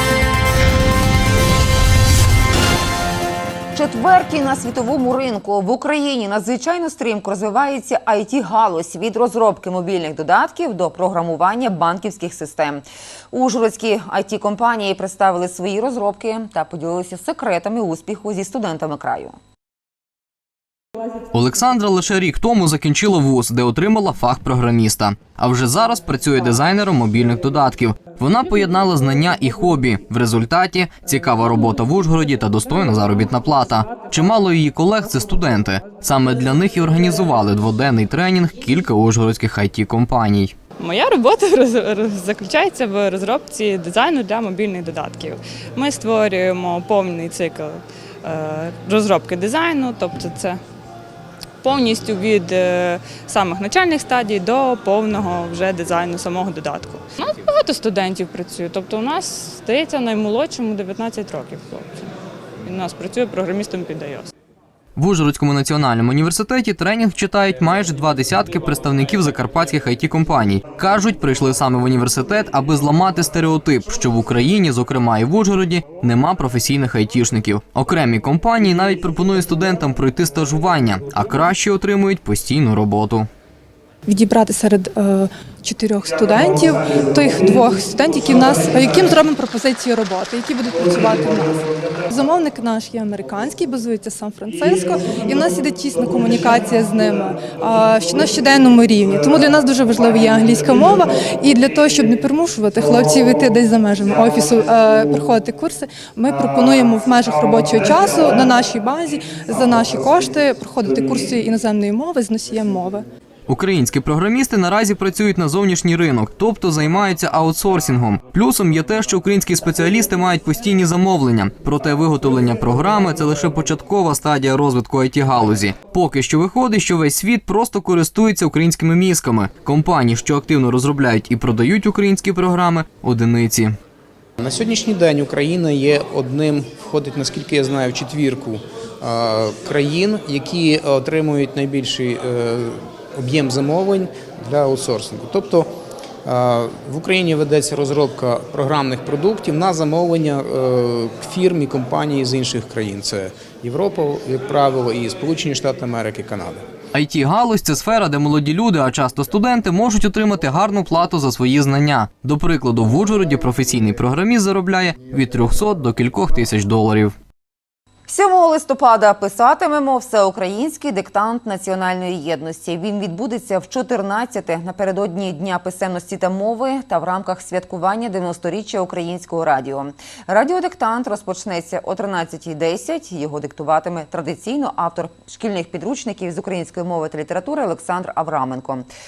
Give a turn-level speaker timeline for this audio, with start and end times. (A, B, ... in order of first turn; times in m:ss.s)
0:03.7-0:19.4 A
0:21.3-0:40.6 B
0:40.8-0:50.6 C
0:51.6-1:02.0 C
1:02.6-1:04.3 C
1:05.0-1:23.3 B
1:24.1-1:53.0 D
1:53.5-2:13.7 B
2:14.4-2:25.7 E
2:26.2-2:36.6 E
2:36.9-2:47.1 B
2:48.1-3:08.9 A